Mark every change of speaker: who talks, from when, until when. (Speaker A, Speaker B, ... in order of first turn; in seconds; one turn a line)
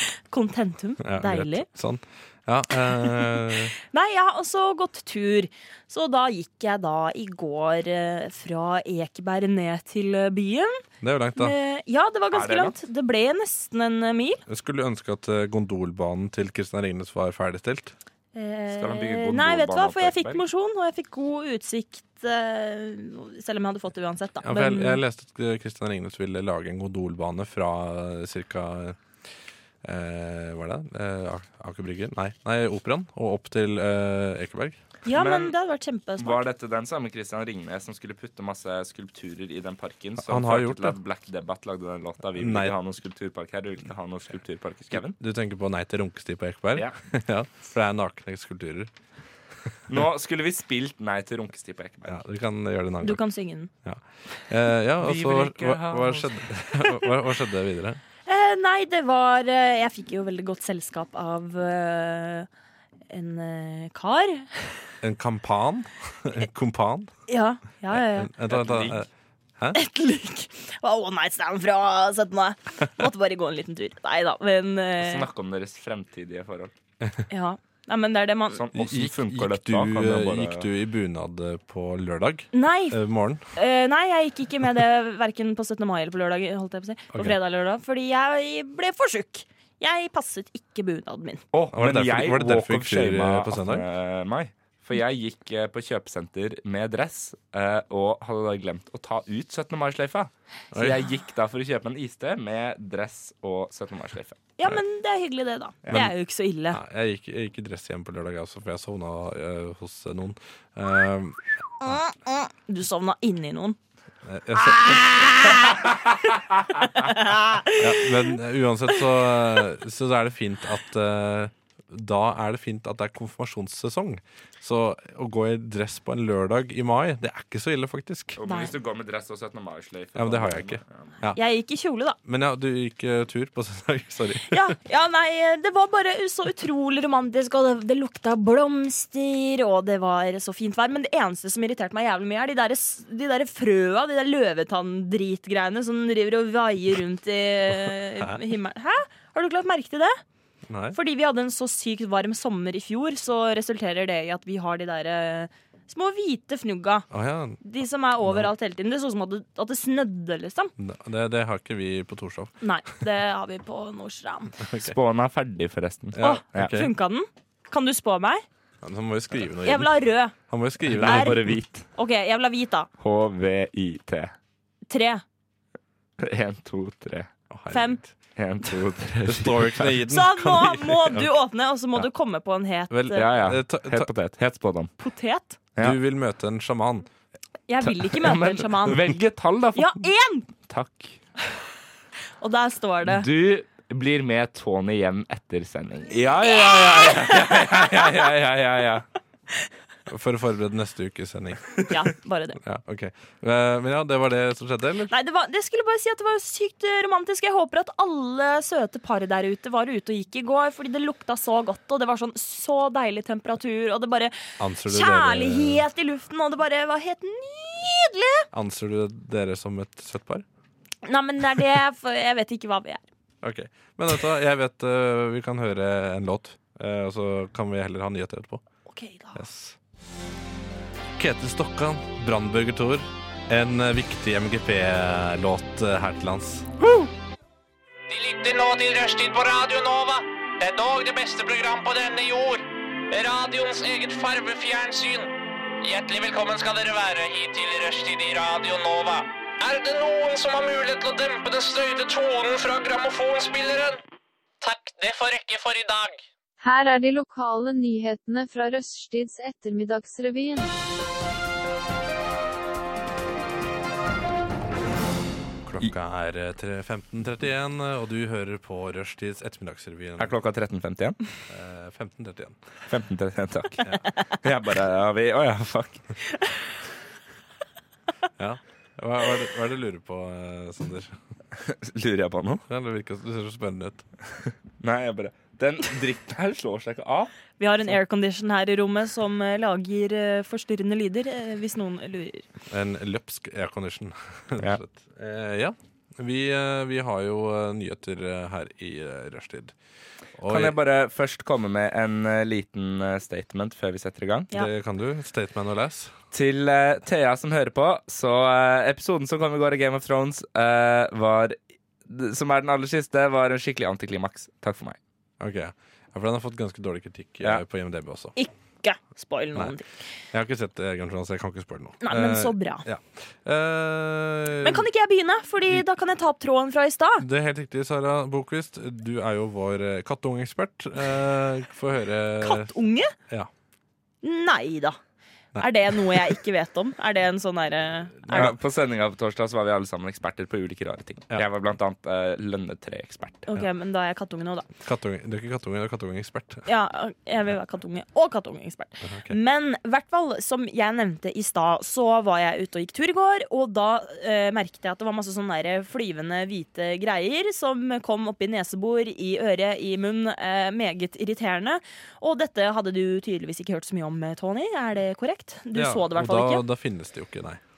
Speaker A: 0.3-1.6
Speaker B: 1.0-3.7
Speaker A: 3.8-10.8
Speaker B: 11.0-11.5
Speaker A: 11.3-14.4
Speaker C: 12.3-12.7
Speaker B: 14.5-17.9
Speaker A: 18.3-25.0
Speaker C: 18.7-20.4
Speaker B: 24.4-29.0
Speaker B: 29.8-34.8
Speaker A: 35.0-36.4
Speaker C: 35.1-35.5
Speaker C: 36.2-45.2
Speaker B: 40.2-41.0
Speaker B: 42.4-42.8
Speaker B: 44.9-48.9
Speaker C: 49.9-52.2
Speaker B: 52.0-53.2
Speaker A: 53.0-53.7
Speaker B: 53.8-58.0
Speaker C: 55.0-56.3
Speaker A: 58.2-62.5
Speaker A: 63.1-64.8
Speaker B: 65.0-67.1
Speaker A: 67.3-68.3
Speaker B: 67.9-69.8
Speaker C: 68.5-69.0
Speaker A: 69.7-75.2
Speaker C: 75.0-76.7
Speaker A: 77.3-78.6
Speaker C: 78.5-80.7
Speaker B: 78.7-83.4
Speaker A: 82.5-83.0
Speaker A: 83.5-91.4
Speaker C: 91.5-104.4
Speaker B: 91.7-93.8
Speaker A: 104.6-106.8
Speaker B: 106.7-112.0
Speaker A: 111.8-113.8
Speaker B: 114.2-115.4
Speaker A: 114.7-115.8
Speaker A: 116.8-118.3
Speaker B: 117.8-128.4
Speaker C: 128.4-131.2
Speaker A: 128.4-128.7
Speaker B: 130.2-131.4
Speaker A: 131.3-132.2
Speaker B: 132.2-134.7
Speaker A: 134.5-150.2
Speaker B: 150.7-151.0
Speaker A: 150.9-157.1
Speaker B: 157.1-157.6
Speaker A: 157.6-160.7
Speaker B: 158.2-158.5
Speaker B: 160.8-162.5
Speaker A: 162.6-164.5
Speaker B: 164.6-164.9
Speaker C: 164.8-166.8
Speaker B: 166.1-166.9
Speaker A: 166.2-168.4
Speaker B: 168.8-171.5
Speaker A: 169.6-170.3
Speaker C: 170.9-171.9
Speaker A: 171.0-171.4
Speaker A: 171.9-172.9
Speaker C: 173.0-174.3
Speaker A: 174.9-175.2
Speaker C: 176.2-177.3
Speaker B: 177.5-178.1
Speaker A: 177.7-178.0
Speaker C: 178.3-179.9
Speaker B: 179.2-181.3
Speaker A: 180.1-183.2
Speaker B: 182.9-184.1
Speaker C: 183.1-184.9
Speaker A: 185.0-185.6
Speaker B: 185.8-187.1
Speaker A: 187.7-189.0
Speaker C: 187.8-191.2
Speaker A: 189.7-190.5
Speaker A: 192.4-193.3
Speaker C: 193.1-199.1
Speaker A: 196.7-197.5
Speaker B: 200.1-202.0
Speaker A: 201.9-202.6
Speaker B: 202.6-205.1
Speaker A: 205.1-214.3
Speaker B: 214.6-215.8
Speaker A: 214.9-218.5
Speaker B: 218.5-220.4
Speaker A: 221.0-223.0
Speaker B: 223.4-228.6
Speaker A: 228.8-229.4
Speaker B: 229.3-229.8
Speaker B: 231.2-236.7
Speaker A: 236.8-237.1
Speaker D: 238.1-254.0
Speaker D: 254.6-256.2
Speaker E: 256.6-260.7
Speaker B: 265.6-270.3
Speaker C: 270.2-271.2
Speaker B: 271.5-272.6
Speaker C: 272.9-276.1
Speaker B: 278.4-281.2
Speaker C: 281.6-282.6
Speaker B: 282.7-284.0
Speaker C: 284.8-287.3
Speaker A: 287.6-292.4
Speaker B: 292.7-299.7
Speaker B: 300.4-300.8
Speaker C: 300.5-304.5
Speaker B: 304.5-306.1
Speaker C: 306.3-315.0
Speaker B: 315.4-318.4
Speaker A: 318.4-319.9
Speaker B: 320.3-324.9
Speaker A: 322.0-322.8
Speaker A: 324.6-327.2
Speaker B: 327.2-332.7
Speaker A: 332.4-333.1
Speaker A: 334.2-335.0
Speaker B: 335.5-336.3
Speaker A: 335.6-338.5
Speaker B: 338.2-338.6
Speaker C: 338.3-343.5
Speaker A: 343.5-344.7
Speaker B: 344.8-346.6
Speaker A: 346.6-366.6
Speaker B: 349.0-349.4
Speaker B: 365.7-367.6